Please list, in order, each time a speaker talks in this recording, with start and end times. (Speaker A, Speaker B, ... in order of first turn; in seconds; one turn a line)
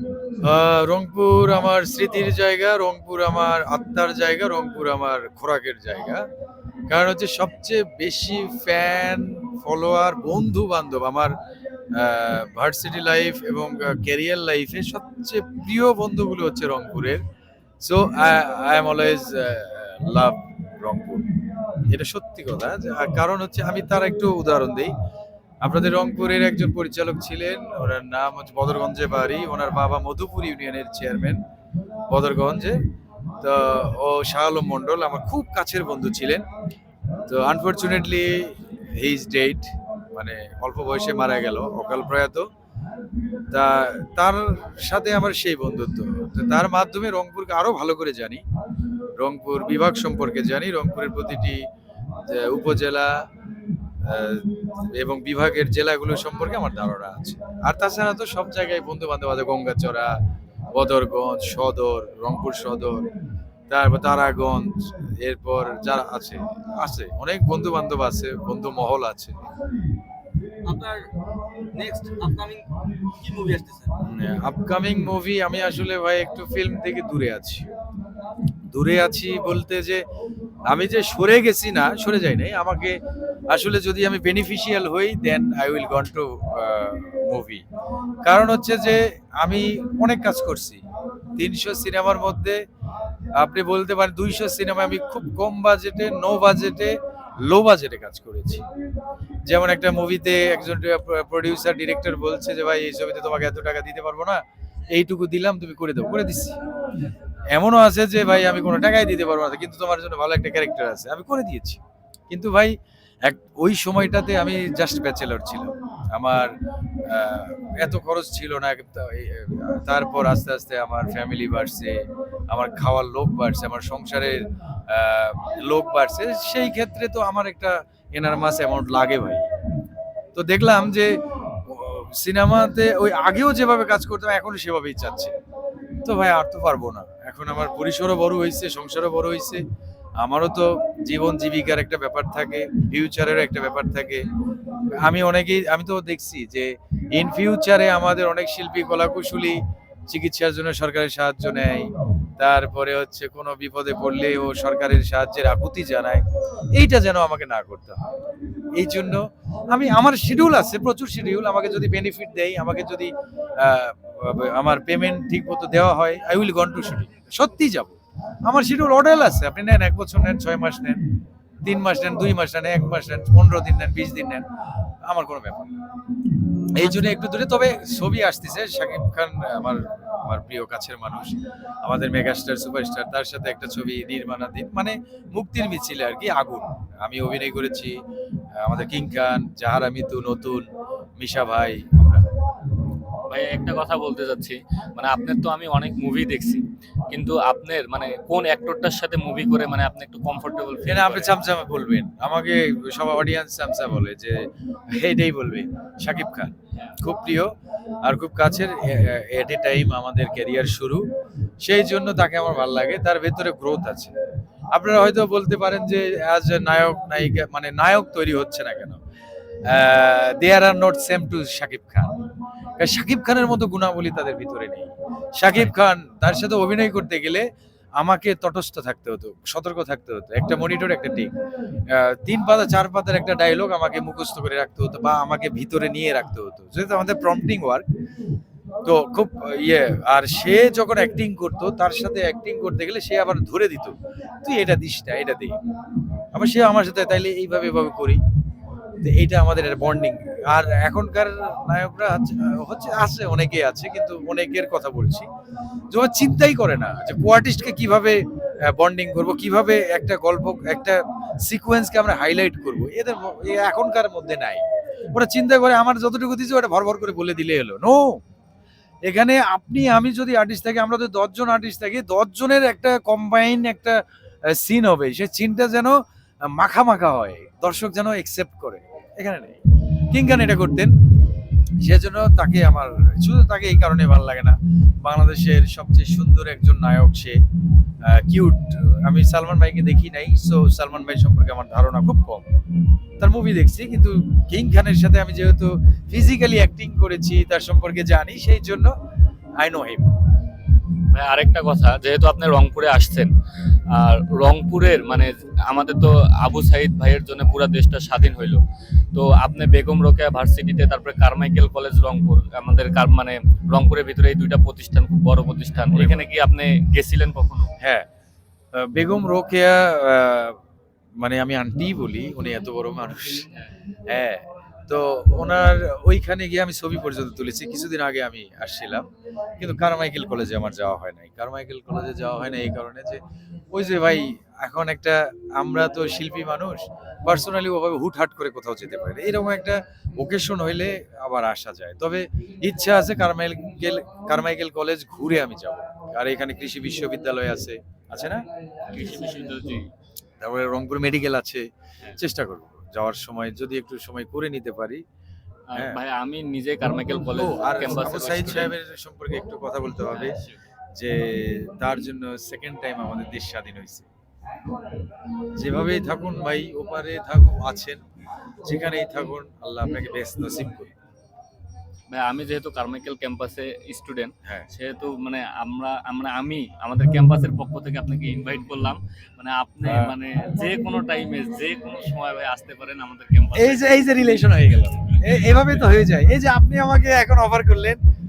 Speaker A: 0.4-6.3
Speaker A: 6.9-11.3
Speaker A: 11.9-17.2
Speaker A: 17.8-21.2
Speaker A: 21.9-24.9
Speaker A: 25.6-31.4
Speaker A: 32.1-32.8
Speaker A: 33.4-36.5
Speaker A: 37.3-42.5
Speaker A: 43.5-48.4
Speaker A: 49.2-51.6
Speaker A: 52.3-53.1
Speaker A: 54.0-60.1
Speaker A: 60.7-63.1
Speaker A: 63.7-69.4
Speaker B: 70.7-71.0
Speaker B: 71.8-73.9
Speaker A: 74.1-77.7
Speaker A: 78.7-80.0
Speaker A: 80.7-87.6
Speaker A: 88.2-90.8
Speaker A: 91.4-92.6
Speaker A: 93.4-97.0
Speaker A: 97.5-98.7
Speaker A: 99.5-106.6
Speaker A: 107.5-112.7
Speaker A: 113.2-116.5
Speaker A: 117.1-124.4
Speaker A: 124.9-129.4
Speaker A: 130.3-131.1
Speaker A: 131.7-135.3
Speaker A: 136.1-139.6
Speaker A: 140.2-144.2
Speaker A: 145.0-156.2
Speaker A: 156.8-158.0
Speaker A: 158.8-171.0
Speaker A: 171.7-174.5
Speaker A: 175.1-175.7
Speaker A: 176.8-188.0
Speaker A: 188.6-190.7
Speaker A: 191.2-192.2
Speaker C: 193.3-201.3
Speaker A: 200.9-204.4
Speaker A: 204.9-207.5
Speaker A: 208.1-211.0
Speaker A: 211.6-214.1
Speaker A: 214.7-219.0
Speaker A: 219.7-222.2
Speaker A: 222.8-227.5
Speaker C: 225.5-225.8
Speaker A: 228.0-231.3
Speaker A: 231.9-237.8
Speaker A: 238.8-245.6
Speaker A: 246.3-248.2
Speaker A: 249.0-255.3
Speaker A: 255.9-258.2
Speaker A: 258.7-264.6
Speaker A: 265.1-268.0
Speaker A: 269.1-274.0
Speaker A: 274.5-276.0
Speaker A: 276.5-279.6
Speaker A: 280.1-280.9
Speaker A: 281.8-287.4
Speaker A: 288.1-292.5
Speaker A: 293.2-298.9
Speaker A: 299.6-300.1
Speaker C: 301.1-303.3
Speaker C: 303.9-308.6
Speaker C: 309.1-317.7
Speaker A: 315.9-316.3
Speaker A: 317.8-318.1
Speaker A: 318.7-320.6
Speaker A: 321.2-323.5
Speaker C: 323.4-323.7
Speaker A: 324.1-329.1
Speaker A: 329.6-333.2
Speaker A: 333.7-348.4
Speaker C: 348.9-349.9
Speaker A: 350.4-355.0
Speaker C: 355.7-358.8
Speaker A: 355.8-356.0
Speaker A: 357.4-360.4
Speaker C: 360.1-360.6
Speaker A: 360.9-364.1
Speaker A: 365.6-368.0
Speaker A: 368.6-370.9
Speaker C: 372.1-383.9
Speaker A: 379.9-380.1
Speaker A: 383.6-388.0
Speaker C: 385.0-385.8